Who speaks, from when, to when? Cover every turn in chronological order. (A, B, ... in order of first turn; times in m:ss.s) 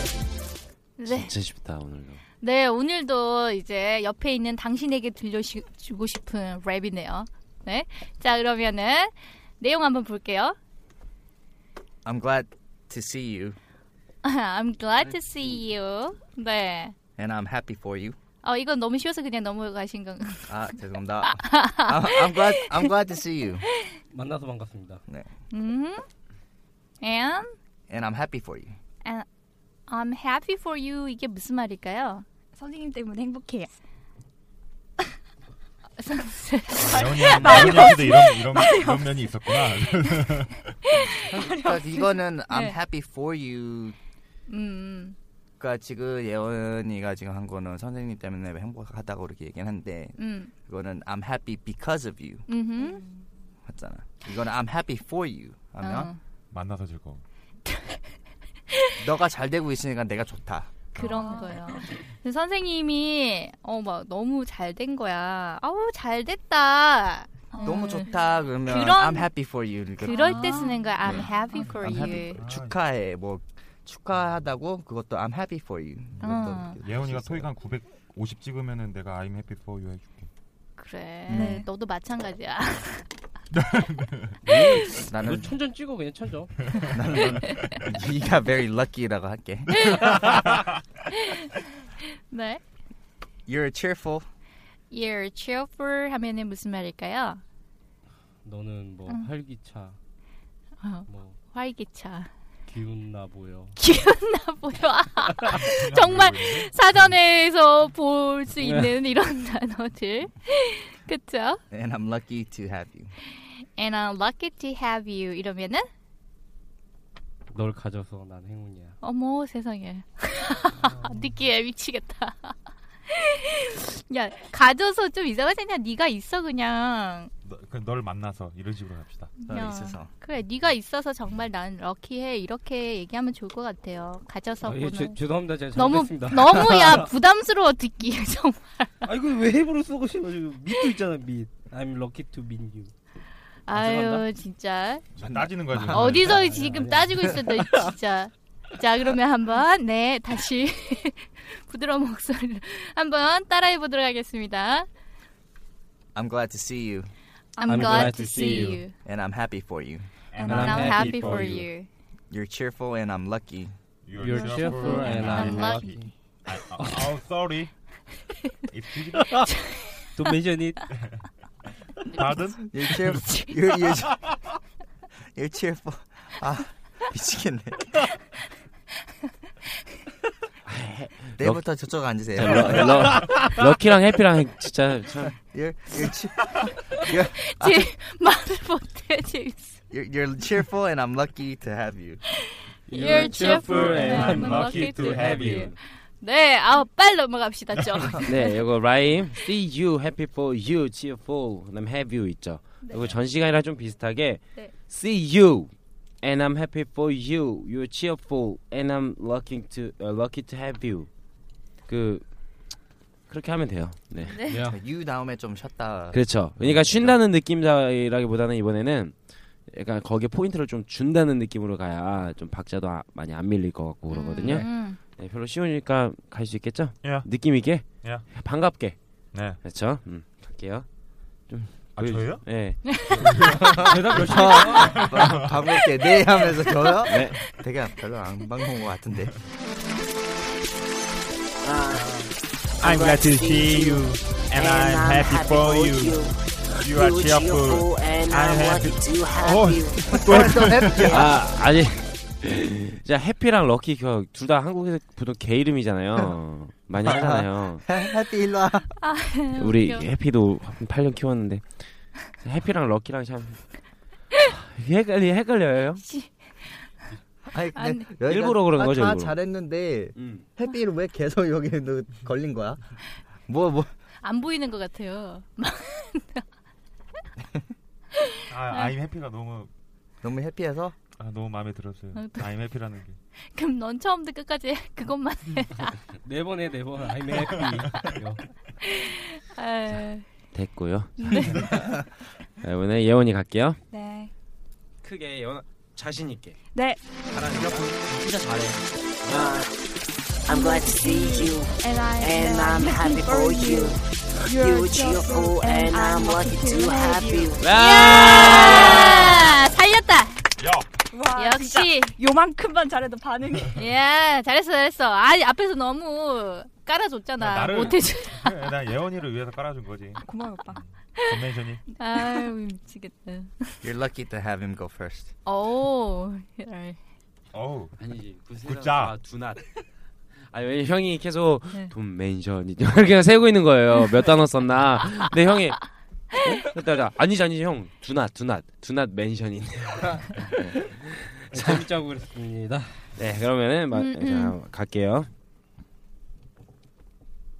0:01.0-0:01.3 A
0:01.1-0:02.2 B
0:02.4-0:10.6 A
0:12.0-0:13.6 C
0:14.2-0:16.9 A
0:17.2-0:18.2 C
0:18.4-0:20.6 A
0:20.5-0:23.7 C
0:21.2-0:22.9 A
0:24.1-0:25.0 D
0:25.5-0:26.0 A
0:27.0-0:27.5 A
0:27.9-0:28.8 C
0:29.9-0:32.2 A
0:32.6-0:33.7 E
0:36.0-0:37.5 A
0:36.8-0:39.0 E
0:36.8-0:40.8 F
0:37.3-0:37.7 C
0:41.2-0:43.9 C
0:42.5-0:42.8 A
0:44.5-0:45.2 A
0:45.6-0:52.4 C
0:50.2-0:50.5 A
0:52.5-0:53.0 A
0:52.8-0:53.2 E
0:53.7-0:56.1 C
0:55.8-0:56.2 A
0:56.5-0:57.2 F
0:57.7-0:58.0 A
0:59.0-1:00.7 C
1:00.9-1:08.1 A
1:01.0-1:01.8 E
1:07.5-1:07.9 E
1:07.6-1:10.3 C
1:08.7-1:09.3 A
1:10.0-1:12.4 A
1:10.1-1:10.9 E
1:11.1-1:12.8 F
1:11.8-1:17.5 C
1:16.2-1:20.3 F
1:16.2-1:16.8 A
1:20.8-1:23.1 A
1:21.3-1:21.7 E
1:23.5-1:24.3 F
1:24.4-1:26.6 D
1:24.9-1:25.5 C
1:26.8-1:27.8 F
1:26.8-1:30.0 C
1:27.2-1:27.5 A
1:29.8-1:30.4 A
1:31.1-1:31.6 A
1:32.3-1:32.6 A
1:33.5-1:34.2 C
1:34.9-1:37.4 A
1:38.4-1:40.0 D
1:40.8-1:42.3 A
1:41.1-1:41.4 D
1:42.7-1:43.8 D
1:43.8-1:51.6 A
1:45.6-1:47.0 F
1:48.6-1:49.0 D
1:51.7-1:53.1 C
1:53.5-1:55.9 A
1:57.5-1:59.0 D
1:59.0-2:02.6 A
2:00.8-2:01.3 F
2:03.1-2:07.3 A
2:07.4-2:09.3 F
2:09.4-2:15.2 A
2:09.5-2:10.1 C
2:14.6-2:17.1 D
2:15.7-2:19.1 A
2:19.1-2:22.9 D
2:23.7-2:25.0 A
2:23.7-2:24.3 D
2:25.2-2:26.8 F
2:25.2-2:26.0 C
2:25.9-2:34.9 A
2:26.0-2:27.9 D
2:36.1-2:37.1 C
2:37.6-2:38.9 A
2:37.6-2:38.9 D
2:37.9-2:40.0 C
2:40.3-2:41.7 F
2:40.4-2:41.9 A
2:40.4-2:41.7 D
2:42.3-2:43.7 C
2:44.0-2:45.9 F
2:44.2-2:46.1 D
2:44.3-2:46.1 A
2:46.5-2:47.8 F
2:46.8-2:47.2 D
2:48.7-2:49.5 F
2:49.5-2:50.0 A
2:50.2-2:50.9 D
2:52.0-2:53.3 F
2:52.7-2:54.2 C
2:55.4-2:58.0 C
3:00.6-3:01.8 B
3:01.4-3:03.2 C
3:02.4-3:05.4 B
3:05.4-3:07.9 C
3:07.1-3:09.8 A
3:09.9-3:12.2 C
3:12.9-3:15.8 D
3:12.9-3:18.5 A
3:13.2-3:15.7 F
3:18.2-3:31.1 B
3:31.9-3:32.2 B
3:33.3-3:34.4 B
3:34.2-3:34.6 A
3:34.4-3:34.8 D
3:34.7-3:37.2 C
3:36.1-3:49.0 B
3:44.1-3:45.0 A
3:47.0-3:47.3 F
3:48.0-3:48.3 F
3:49.3-3:49.6 F
3:49.6-3:50.9 B
3:51.4-3:53.2 B
3:52.0-3:55.6 F
3:53.6-3:55.2 D
3:53.6-3:59.3 C
3:57.0-3:57.4 B
4:01.6-4:02.0 G
4:01.9-4:06.2 F
4:02.8-4:06.3 G
4:06.8-4:11.2 F
4:06.8-4:10.1 G
4:10.1-4:11.3 C
4:11.1-4:17.9 B
4:17.0-4:18.9 C
4:19.0-4:20.1 A
4:19.6-4:26.0 B
4:26.0-4:26.9 A
4:27.5-4:32.8 C
4:27.7-4:28.1 A
4:28.3-4:29.5 B
4:30.2-4:30.4 B
4:33.5-4:33.9 C
4:34.2-4:36.4 A
4:38.2-4:38.9 A
4:38.5-4:39.7 F
4:40.2-4:41.0 C
4:41.2-4:43.2 F
4:42.1-4:42.5 A
4:43.5-4:46.0 A
4:46.2-4:48.4 D
4:48.8-4:50.2 A
4:50.5-4:51.4 B
4:51.2-4:51.9 E
4:52.6-4:53.8 B
4:53.9-4:54.3 E
4:55.0-4:56.6 B
4:56.7-4:57.0 E
4:57.3-4:59.6 B
4:57.6-4:58.0 F
4:59.3-4:59.7 G
5:00.5-5:07.6 E
5:00.5-5:04.0 G
5:04.6-5:07.6 G
5:07.6-5:09.5 B
5:07.7-5:10.4 A
5:10.6-5:10.9 F
5:11.1-5:13.8 E
5:11.4-5:12.2 A
5:13.7-5:18.6 A
5:17.4-5:21.8 F
5:20.2-5:20.8 E
5:22.0-5:23.9 A
5:22.1-5:22.4 E
5:23.8-5:25.3 C
5:25.4-5:27.0 A
5:27.5-5:28.0 F
5:28.0-5:29.8 B
5:28.6-5:29.2 F
5:30.4-5:41.9 B
5:40.4-5:40.8 D
5:41.5-5:43.2 D
5:43.2-5:45.3 B
5:43.9-5:44.6 A